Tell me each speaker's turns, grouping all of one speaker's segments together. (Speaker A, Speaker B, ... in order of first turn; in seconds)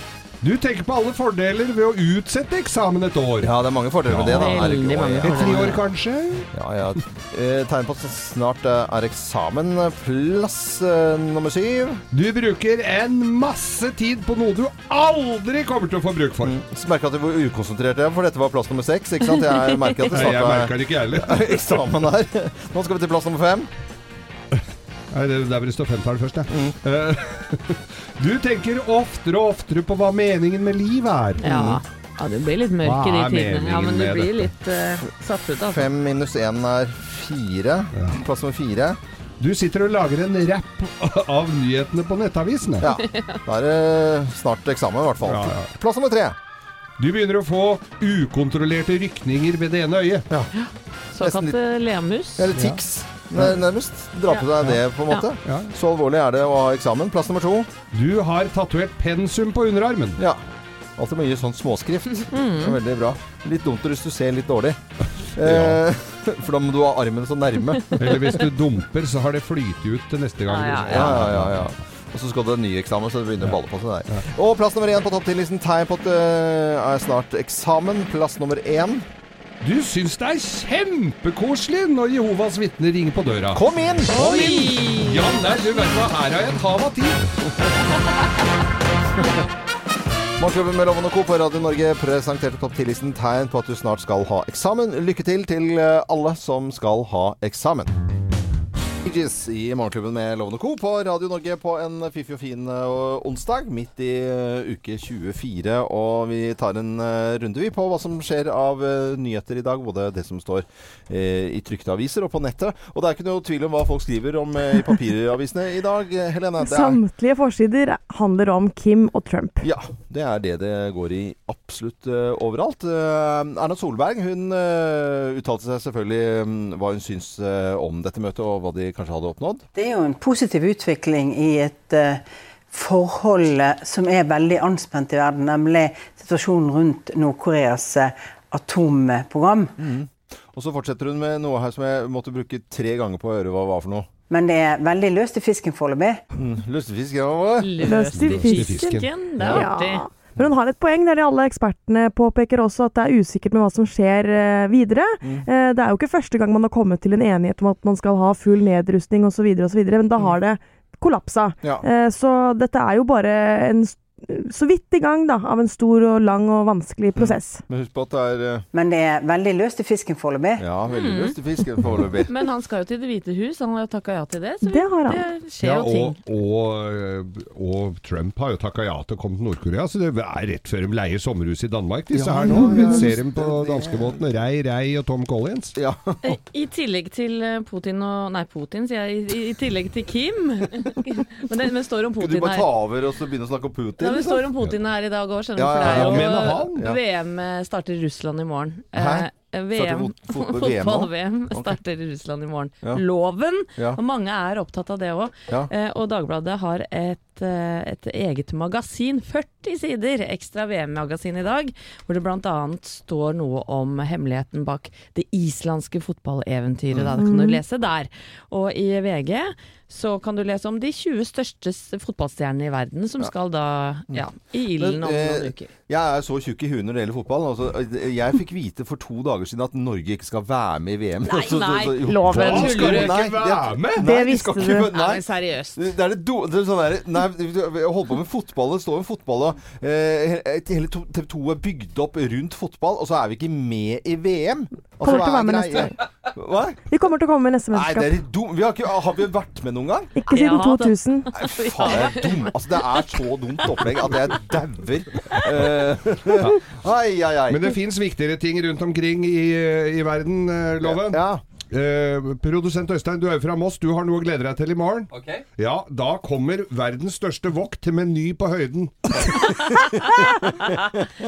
Speaker A: 0.4-3.5, 4.1-6.5, 12.1-16.6, 20.1-21.8, 25.1-31.8, 32.8-34.5, 37.9-38.2, 39.4-42.9, 45.2-45.7, 47.0-50.3, 52.5-52.8, 55.4-55.7, 57.9-60.2, 65.4-65.8, 68.0-71.7, 79.6-87.3, 148.1-149.6, 175.6-185.8, 195.8-196.9, 232.2-234.1, 256.4-256.6, 257.5-269.5
Speaker B: 3.4-5.7, 6.5-12.0, 16.4-23.7, 26.5-26.8, 31.4-31.8, 35.7-39.0, 42.8-46.4, 51.2-51.6, 52.4-57.7, 61.0-64.8, 65.3-68.0, 70.9-79.0, 83.5-84.3, 90.4-97.9, 99.0-117.0, 119.6-129.7, 139.8-144.1, 146.3-147.7, 167.2-168.6, 170.6-172.3, 182.1-184.2, 185.8-186.2, 192.2-194.4, 195.6-197.0, 198.9-201.8, 216.9-217.2, 224.8-246.8, 247.7-250.1, 251.3-257.7, 260.8-261.4, 269.3-270.7
Speaker C: 4.3-5.8, 31.4-35.9, 42.9-43.4, 50.5-52.5, 62.3-62.8, 70.5-71.1, 84.1-85.8, 147.6-150.1, 170.9-171.4, 172.3-176.2, 186.2-192.7, 194.0-225.7, 231.3-233.2, 234.8-235.8, 250.3-253.0
Speaker D: 116.6-119.6, 147.8-148.9, 149.4-167.6, 174.6-175.2, 182.5-183.0, 217.2-217.6, 232.1-233.0, 234.0-234.9, 245.0-246.0, 246.9-248.2, 250.2-251.3
Speaker E: 129.7-139.8, 144.3-146.2, 168.7-170.6